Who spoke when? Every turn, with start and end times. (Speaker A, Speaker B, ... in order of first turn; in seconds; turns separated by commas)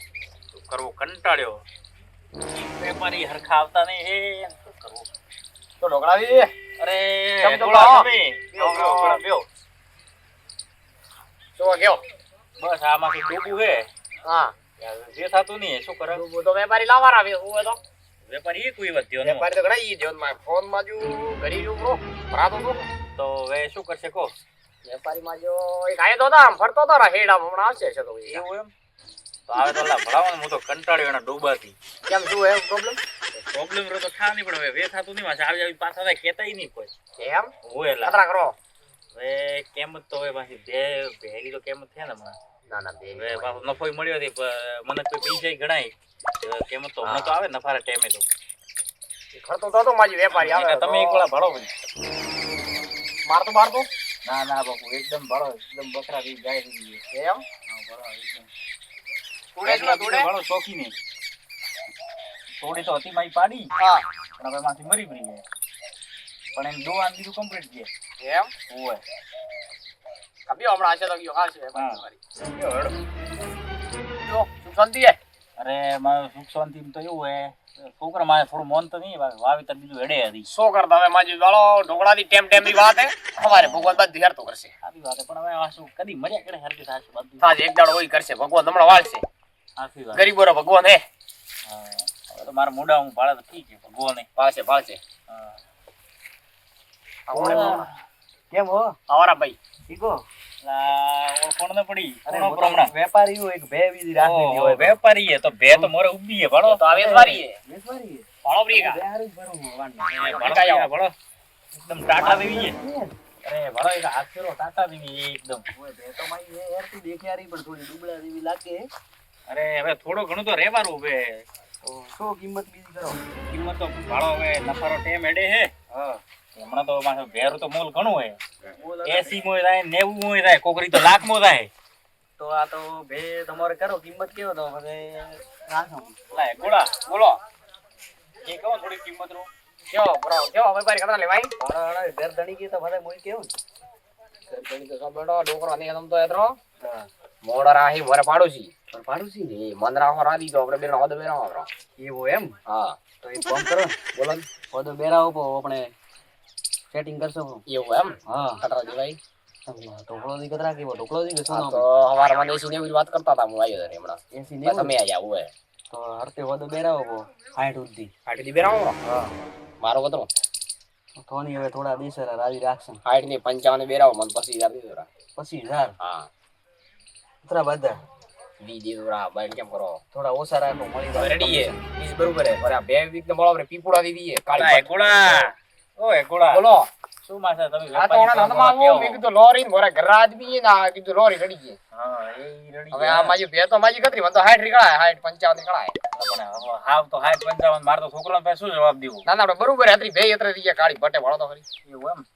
Speaker A: 0.5-1.6, Speaker A: 2.7-5.1, Speaker B: 5.8-6.5, Speaker A: 6.8-9.5, Speaker B: 7.4-9.2, Speaker B: 11.6-12.0, Speaker A: 12.6-13.9, Speaker B: 14.2-14.5, Speaker A: 14.8-16.2, Speaker B: 16.1-17.8, Speaker A: 18.3-19.4, Speaker B: 19.2-22.9, Speaker A: 23.1-24.3, Speaker B: 24.8-28.4, Speaker A: 28.2-28.7, Speaker A: 29.5-31.8, Speaker B: 32.0-33.0, Speaker A: 33.3-36.9, Speaker B: 37.2-37.5, Speaker A: 37.6-38.2, Speaker B: 38.0-38.5, Speaker A: 39.1-42.4, Speaker B: 42.7-43.5, Speaker A: 43.1-48.2, Speaker B: 47.0-47.3, Speaker B: 49.3-51.2, Speaker A: 50.3-51.7, Speaker B: 53.3-53.9, Speaker A: 54.2-57.0, Speaker B: 57.1-57.4, Speaker A: 57.7-58.5, Speaker B: 59.5-60.3, Speaker A: 59.6-60.9, Speaker A: 62.6-63.7, Speaker B: 63.8-64.0, Speaker A: 64.4-65.4, Speaker A: 66.5-67.9, Speaker B: 68.2-68.5, Speaker A: 68.7-69.0, Speaker B: 70.5-72.2, Speaker A: 71.7-72.9, Speaker B: 74.2-75.2, Speaker A: 75.6-80.5, Speaker B: 80.5-84.7, Speaker A: 83.3-84.0, Speaker A: 84.8-87.4, Speaker B: 87.4-89.2, Speaker A: 89.8-90.3, Speaker B: 90.1-91.0, Speaker A: 91.7-94.3, Speaker B: 94.3-95.0, Speaker A: 95.3-95.5, Speaker B: 97.3-97.9, Speaker C: 97.3-97.8, Speaker A: 97.4-97.9, Speaker C: 98.5-98.9, Speaker B: 99.1-99.6, Speaker C: 99.9-100.2, Speaker A: 100.6-102.9, Speaker C: 102.2-105.0, Speaker A: 104.2-106.8, Speaker B: 106.6-107.5, Speaker C: 106.9-110.1, Speaker B: 108.4-109.0, Speaker A: 110.1-111.1, Speaker B: 110.2-110.9, Speaker A: 111.8-112.8, Speaker C: 112.2-113.1, Speaker A: 113.4-115.6, Speaker C: 115.7-118.8, Speaker A: 119.5-121.4, Speaker C: 121.8-123.2, Speaker A: 123.5-125.7, Speaker C: 125.9-126.2, Speaker A: 126.5-128.3, Speaker C: 128.6-129.4, Speaker A: 129.0-131.7, Speaker C: 132.4-136.1, Speaker A: 136.3-137.1, Speaker B: 137.1-137.4, Speaker A: 138.4-139.5, Speaker B: 139.9-141.5, Speaker C: 141.6-143.5, Speaker B: 144.5-146.6, Speaker B: 147.4-148.7, Speaker C: 148.9-149.5, Speaker B: 149.5-151.7, Speaker C: 152.0-152.6, Speaker B: 152.7-153.0, Speaker C: 153.2-154.0, Speaker B: 154.2-154.4, Speaker C: 154.6-155.9, Speaker C: 156.9-157.6, Speaker B: 157.7-159.2, Speaker C: 158.3-158.6, Speaker C: 159.7-161.8, Speaker B: 161.5-165.5, Speaker C: 164.3-164.9, Speaker C: 165.9-168.1, Speaker B: 168.3-168.9, Speaker C: 169.0-169.3, Speaker B: 169.8-170.3, Speaker C: 171.2-173.0, Speaker B: 173.1-175.1, Speaker C: 175.3-175.9, Speaker B: 176.0-176.3, Speaker C: 177.4-178.0, Speaker B: 178.6-180.0, Speaker C: 180.1-181.7, Speaker B: 181.1-185.5, Speaker A: 184.5-186.6, Speaker B: 186.5-186.9, Speaker A: 187.2-189.2, Speaker B: 187.9-191.8, Speaker A: 191.9-193.3, Speaker B: 192.9-195.9, Speaker A: 196.1-199.2, Speaker B: 199.2-201.6, Speaker A: 201.8-202.2